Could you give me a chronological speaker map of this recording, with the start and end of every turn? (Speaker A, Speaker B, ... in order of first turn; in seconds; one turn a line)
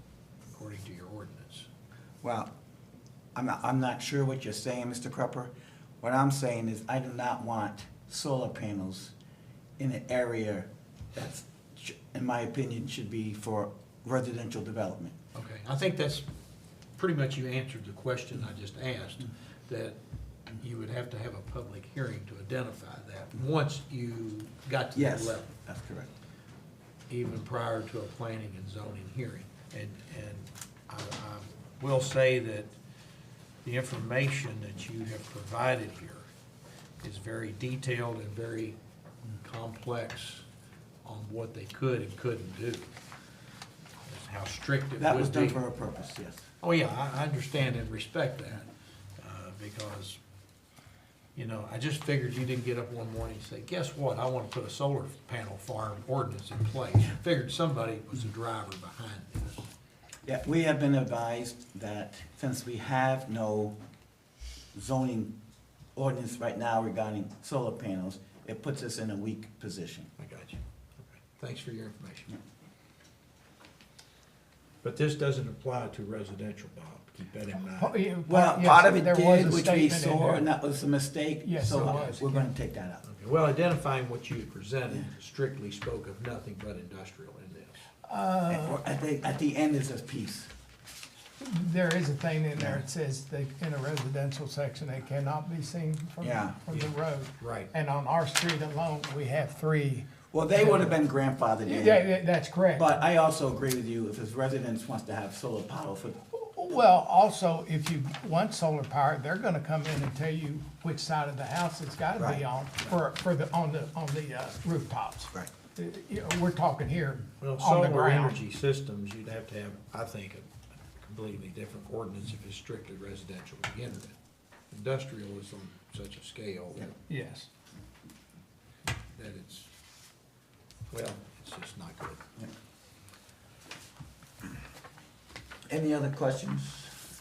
Speaker A: 0.5-1.7
Speaker B: 2.2-2.5
Speaker B: 3.3-9.1
Speaker B: 9.8-15.1
Speaker A: 15.3-16.3
Speaker A: 16.9-20.0
Speaker A: 20.6-25.5
Speaker B: 24.9-26.1
Speaker A: 27.1-32.7
Speaker A: 33.6-36.3
Speaker A: 37.0-38.8
Speaker A: 39.4-40.5
Speaker A: 41.0-42.9
Speaker A: 44.0-45.6
Speaker B: 45.0-46.5
Speaker A: 46.6-50.2
Speaker A: 51.3-59.7
Speaker B: 60.2-63.7
Speaker B: 64.7-65.3
Speaker B: 66.0-70.1
Speaker A: 70.2-72.4
Speaker A: 74.8-78.0
Speaker C: 77.8-80.5
Speaker B: 78.3-83.0
Speaker C: 81.4-82.2
Speaker A: 81.7-82.2
Speaker A: 83.0-87.8
Speaker C: 88.0-88.8
Speaker B: 88.5-90.5
Speaker C: 91.4-100.9
Speaker B: 96.2-96.6
Speaker A: 96.7-97.7
Speaker B: 100.3-102.0
Speaker C: 101.7-102.9
Speaker B: 102.8-106.2
Speaker C: 106.3-118.3
Speaker B: 112.2-112.4
Speaker A: 117.4-124.1
Speaker A: 124.7-126.9
Speaker C: 127.1-127.5
Speaker A: 129.1-129.7
Speaker A: 130.9-132.2
Speaker B: 135.7-136.9